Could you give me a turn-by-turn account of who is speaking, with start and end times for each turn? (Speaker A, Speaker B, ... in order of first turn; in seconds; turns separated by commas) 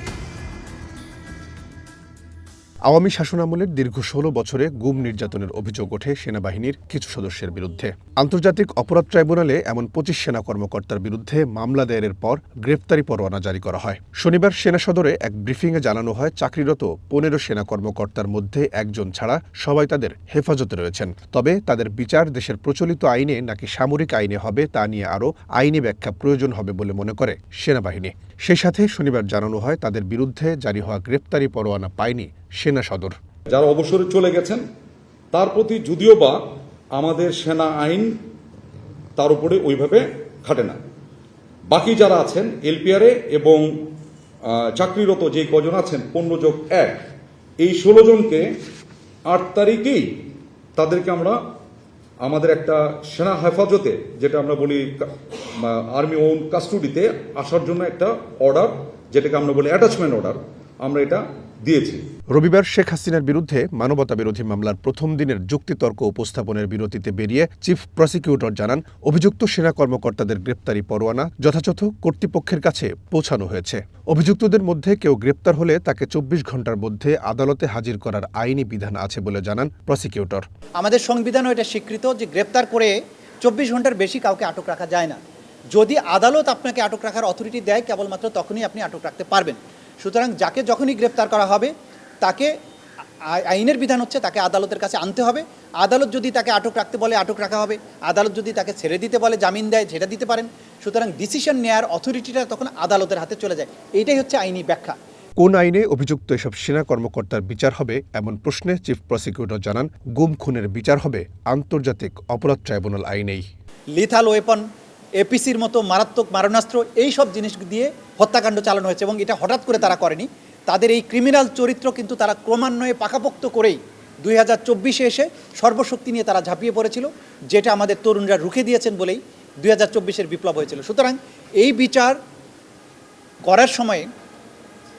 Speaker A: 2.9-33.1, Speaker B: 33.5-34.6, Speaker B: 35.3-36.4, Speaker B: 37.0-38.1, Speaker B: 39.1-40.8, Speaker B: 41.7-43.6, Speaker B: 44.4-47.0, Speaker B: 47.6-48.4, Speaker B: 49.3-50.1, Speaker B: 50.8-51.4, Speaker B: 52.2-62.0, Speaker A: 62.3-80.4, Speaker C: 80.8-85.2, Speaker C: 85.7-92.5, Speaker C: 93.2-105.0, Speaker A: 105.4-113.4, Speaker C: 113.9-114.6, Speaker C: 115.2-132.2, Speaker C: 133.4-134.1